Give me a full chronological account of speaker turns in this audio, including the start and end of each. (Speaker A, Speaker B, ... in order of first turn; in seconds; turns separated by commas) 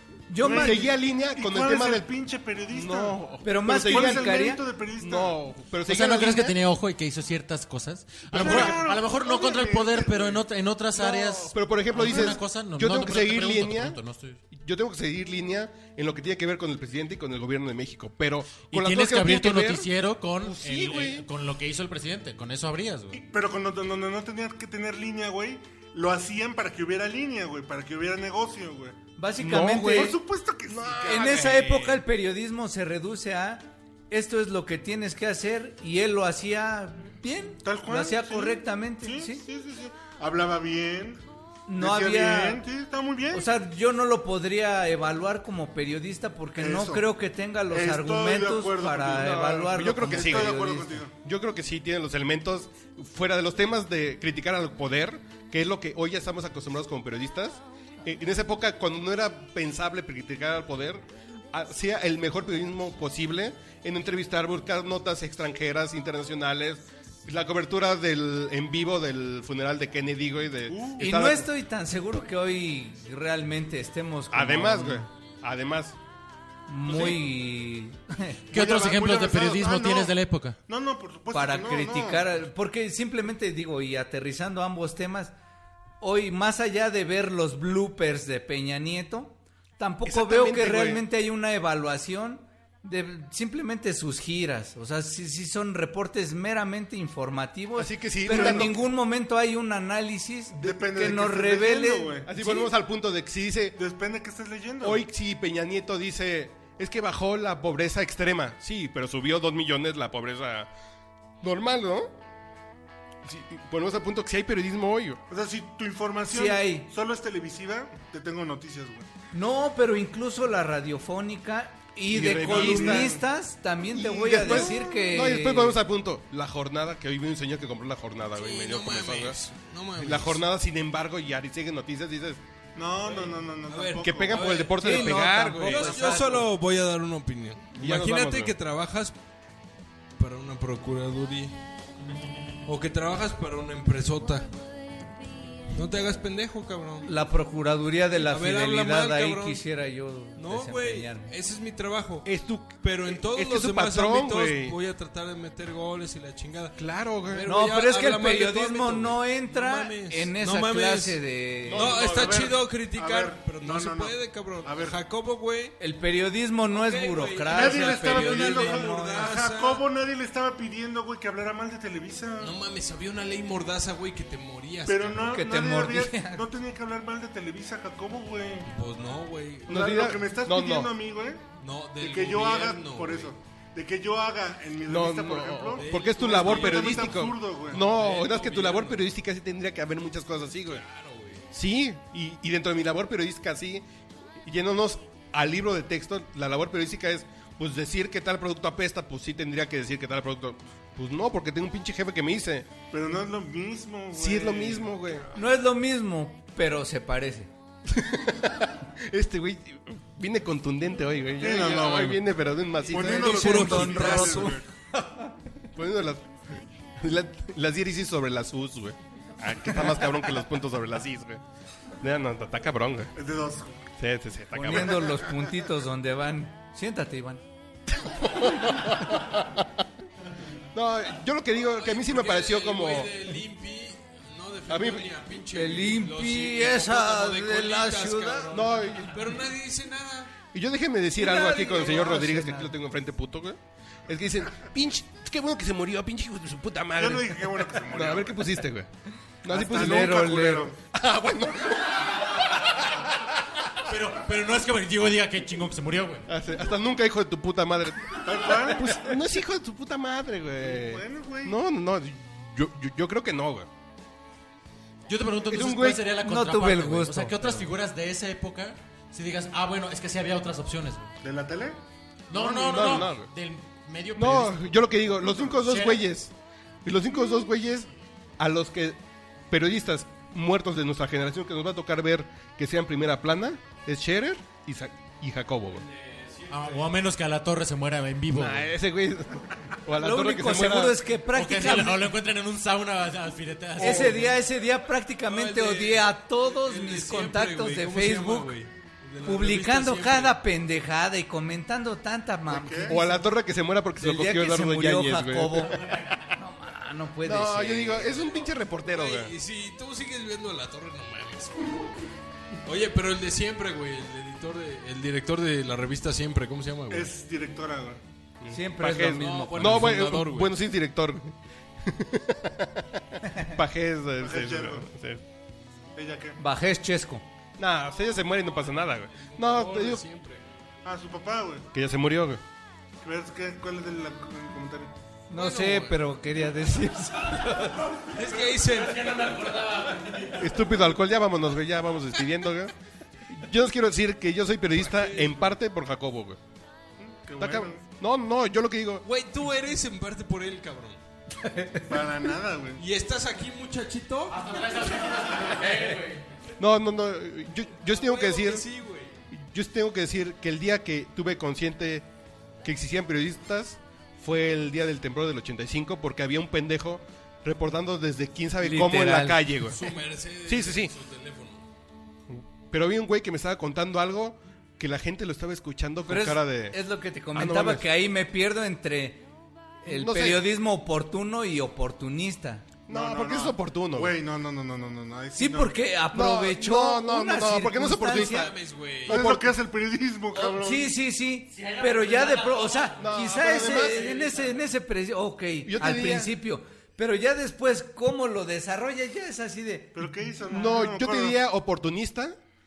Speaker A: 0.3-0.9, Speaker B: 0.4-2.1, Speaker C: 0.4-5.4, Speaker B: 2.7-6.6, Speaker A: 3.4-4.6, Speaker D: 5.8-14.4, Speaker B: 8.3-8.9, Speaker C: 8.3-10.4, Speaker B: 10.9-14.0, Speaker C: 12.1-12.3, Speaker B: 14.5-19.9, Speaker D: 18.7-23.2, Speaker B: 20.4-21.2, Speaker C: 23.1-29.0, Speaker A: 29.2-30.1, Speaker B: 29.4-32.0, Speaker C: 29.8-31.5, Speaker A: 31.0-39.4, Speaker C: 37.6-41.2, Speaker A: 41.7-42.6, Speaker C: 41.8-43.5, Speaker A: 43.3-51.0, Speaker C: 46.6-47.1, Speaker C: 47.7-51.1, Speaker B: 49.2-50.6, Speaker B: 51.2-71.5, Speaker C: 70.7-71.1, Speaker A: 71.0-75.1, Speaker B: 74.3-76.0, Speaker A: 76.7-78.5, Speaker C: 76.9-77.2, Speaker C: 78.5-80.1, Speaker D: 78.5-80.6, Speaker C: 80.7-82.2, Speaker A: 81.3-85.3, Speaker A: 86.0-102.7, Speaker B: 90.0-91.0, Speaker B: 97.8-98.8, Speaker C: 98.3-98.7, Speaker C: 100.6-102.3, Speaker B: 102.2-103.8, Speaker C: 103.8-105.0, Speaker B: 104.8-110.7, Speaker B: 111.4-112.1, Speaker B: 113.2-115.2, Speaker C: 115.3-119.1, Speaker A: 116.3-116.9, Speaker A: 119.3-125.8, Speaker B: 122.1-123.2, Speaker C: 122.1-123.2, Speaker B: 123.9-129.4, Speaker E: 128.3-130.4, Speaker B: 130.0-132.4, Speaker C: 132.7-134.6, Speaker E: 133.2-139.1, Speaker B: 134.0-136.1, Speaker A: 134.7-136.5, Speaker B: 137.8-138.5, Speaker E: 140.2-141.6, Speaker E: 142.6-144.6, Speaker E: 145.7-147.1, Speaker A: 147.0-151.3, Speaker E: 148.2-149.6, Speaker E: 150.3-152.2, Speaker B: 152.2-154.8, Speaker E: 152.8-161.2, Speaker B: 156.8-157.5, Speaker A: 157.4-161.9, Speaker B: 161.7-162.5, Speaker E: 161.7-165.7, Speaker C: 162.0-165.0, Speaker A: 165.8-169.2, Speaker E: 166.7-169.8, Speaker C: 167.5-172.6, Speaker E: 172.4-175.3, Speaker C: 174.8-178.7, Speaker A: 175.2-176.4, Speaker E: 178.7-179.9, Speaker B: 179.7-180.9, Speaker C: 179.7-181.4, Speaker E: 181.6-183.3, Speaker C: 182.0-187.8, Speaker B: 184.8-190.8, Speaker E: 185.8-189.0, Speaker E: 190.7-191.4, Speaker B: 191.5-193.8, Speaker B: 194.4-202.7, Speaker C: 202.9-204.9, Speaker B: 204.1-205.3, Speaker A: 205.3-207.5, Speaker B: 207.9-213.9, Speaker C: 211.4-212.2, Speaker C: 212.9-214.6, Speaker A: 212.9-215.2, Speaker E: 213.0-214.6, Speaker B: 215.7-216.3, Speaker B: 217.0-221.4, Speaker B: 222.0-223.1, Speaker C: 223.1-223.8, Speaker B: 224.0-225.2, Speaker A: 224.5-227.4, Speaker B: 227.9-229.8, Speaker B: 230.7-233.1, Speaker E: 231.7-240.3, Speaker B: 234.7-235.1, Speaker A: 235.5-238.6, Speaker B: 238.5-239.2, Speaker B: 240.5-248.9, Speaker A: 241.2-242.7, Speaker C: 247.0-248.4, Speaker B: 249.4-252.6, Speaker C: 249.5-250.7, Speaker A: 249.5-250.7, Speaker D: 253.8-256.2, Speaker B: 256.3-263.7, Speaker C: 258.2-258.9, Speaker C: 260.6-261.5, Speaker D: 265.1-271.1, Speaker B: 265.5-266.0, Speaker A: 266.2-267.6, Speaker C: 271.2-271.8, Speaker D: 272.3-274.6, Speaker C: 272.3-273.1, Speaker B: 272.4-273.3, Speaker B: 274.2-276.3, Speaker D: 275.6-276.1, Speaker B: 276.8-277.9, Speaker B: 278.4-279.0, Speaker B: 279.5-285.9, Speaker E: 285.7-287.1, Speaker D: 286.5-288.7, Speaker B: 288.3-291.0, Speaker A: 289.9-292.1, Speaker D: 291.3-294.3, Speaker E: 293.8-294.4, Speaker A: 293.8-298.5, Speaker E: 295.2-300.4, Speaker A: 299.2-303.2, Speaker C: 302.5-303.0, Speaker B: 302.9-305.9, Speaker A: 304.0-308.4, Speaker B: 307.2-309.3, Speaker E: 308.8-311.7, Speaker E: 312.6-317.1, Speaker C: 316.9-318.0, Speaker B: 318.4-325.2, Speaker A: 318.5-320.1, Speaker E: 318.8-320.5, Speaker C: 324.2-324.9, Speaker C: 325.9-326.4, Speaker A: 326.4-327.2, Speaker B: 327.6-330.0, Speaker E: 329.2-330.4, Speaker C: 330.8-331.7, Speaker B: 331.7-332.4, Speaker C: 333.0-334.9, Speaker A: 335.3-337.9, Speaker E: 335.3-336.0, Speaker E: 338.0-339.4, Speaker D: 338.6-340.7, Speaker B: 340.4-342.7, Speaker B: 343.3-346.4, Speaker E: 344.7-345.4, Speaker C: 347.0-347.8, Speaker B: 347.4-349.1, Speaker E: 349.0-351.0, Speaker A: 351.4-351.8, Speaker C: 351.9-352.8, Speaker E: 352.8-354.5, Speaker D: 354.3-356.2, Speaker B: 356.6-358.7, Speaker E: 357.8-359.1, Speaker B: 359.3-362.1, Speaker B: 362.6-369.8, Speaker A: 368.6-369.7, Speaker E: 369.6-371.6, Speaker B: 370.4-370.9, Speaker B: 372.3-376.8, Speaker A: 376.1-379.2, Speaker B: 377.3-377.9, Speaker B: 379.8-380.4, Speaker A: 379.8-382.6, Speaker B: 382.9-384.1, Speaker C: 382.9-385.8, Speaker A: 385.4-388.5, Speaker B: 386.1-388.5, Speaker E: 388.1-389.2, Speaker B: 389.1-389.6, Speaker C: 389.1-390.9, Speaker A: 390.6-399.9, Speaker D: 391.5-394.2, Speaker B: 393.0-394.1, Speaker B: 395.6-396.3, Speaker C: 399.9-401.4, Speaker B: 400.5-402.4